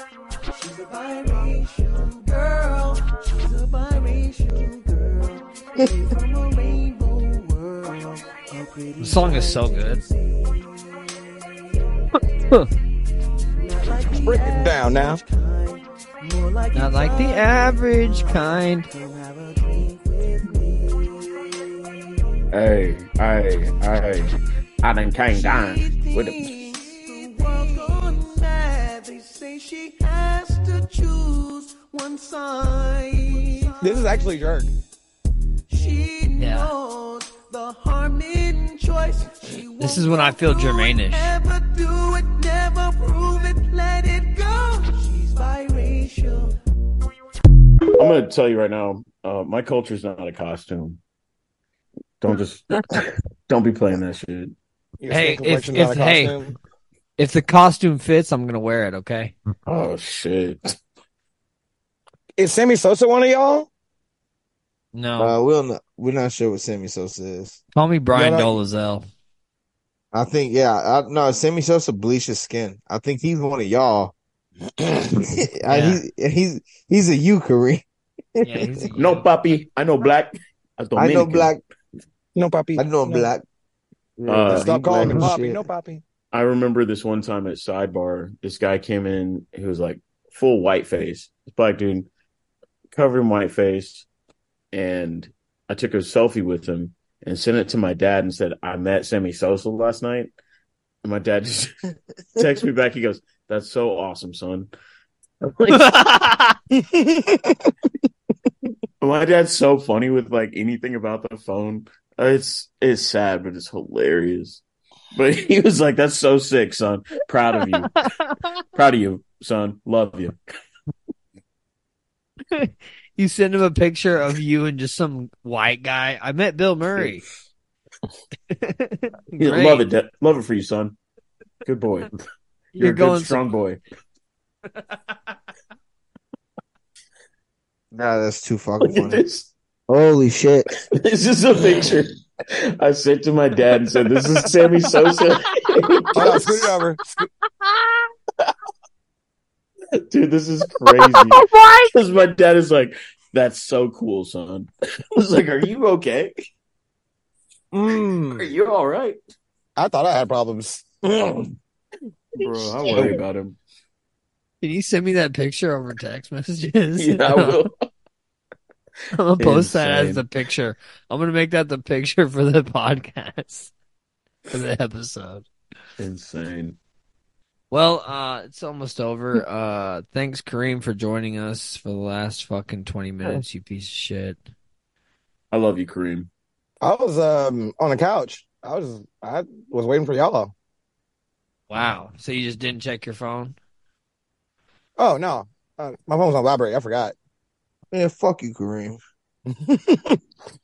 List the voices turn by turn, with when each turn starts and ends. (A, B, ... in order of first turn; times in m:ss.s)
0:00.4-0:12.7 A
0:09.0-0:10.0 B
0:13.5-0:22.4 A
0:14.2-0:15.2 C
0:16.7-0:18.9 B
0:22.5-0:26.5 D
0:23.9-0:24.2 A
0:25.2-0:34.7 A
0:33.8-0:34.7 C
0:35.7-0:46.6 A
0:36.4-0:36.7 B
0:39.8-0:41.3 B
0:48.0-0:51.0 D
0:52.2-0:54.6 D
0:55.0-0:56.6 C
0:55.1-0:56.4 B
0:57.2-0:59.3 B
0:59.7-1:00.8 D
1:02.4-1:03.7 C
1:04.9-1:05.4 B
1:05.2-1:07.6 E
1:07.8-1:09.1 B
1:08.1-1:08.5 C
1:10.1-1:14.1 E
1:15.2-1:17.8 E
1:15.7-1:16.0 B
1:18.4-1:18.7 E
1:18.4-1:19.3 B
1:19.0-1:21.5 D
1:21.0-1:21.6 E
1:22.4-1:23.3 C
1:22.8-1:23.4 E
1:24.2-1:25.6 E
1:24.3-1:25.2 D
1:24.4-1:26.0 C
1:26.3-1:32.1 D
1:32.9-1:34.1 D
1:34.7-1:40.3 D
1:41.0-1:41.7 D
1:42.4-1:44.7 D
1:45.4-1:46.0 D
1:45.7-1:46.6 B
1:46.8-1:47.7 C
1:49.0-1:54.6 D
1:55.1-1:57.9 D
1:58.0-1:58.4 B
1:58.7-2:00.4 D
2:02.5-2:07.2 B
2:08.5-2:09.8 B
2:09.4-2:11.0 D
2:11.6-2:12.1 D
2:12.8-2:13.5 B
2:12.8-2:13.8 D
2:17.9-2:19.2 E
2:18.8-2:19.5 D
2:19.9-2:20.7 E
2:20.9-2:26.6 D
2:26.2-2:27.2 C
2:30.1-2:31.4 D
2:31.4-2:31.8 B
2:31.9-2:36.3 D
2:37.7-2:38.5 E
2:38.3-2:39.2 D
2:39.8-2:41.5 C
2:42.4-2:43.6 D
2:42.9-2:43.2 E
2:44.6-2:47.6 B
2:47.0-2:47.7 D
2:49.1-2:53.7 B
2:49.4-2:50.2 D
2:54.5-2:55.5 B
2:56.0-2:56.8 D
2:57.7-3:04.4 B
3:05.5-3:06.3 D
3:06.8-3:10.5 C
3:11.7-3:13.6 B
3:15.0-3:17.2 C
3:17.9-3:19.0 E
3:19.5-3:20.2 C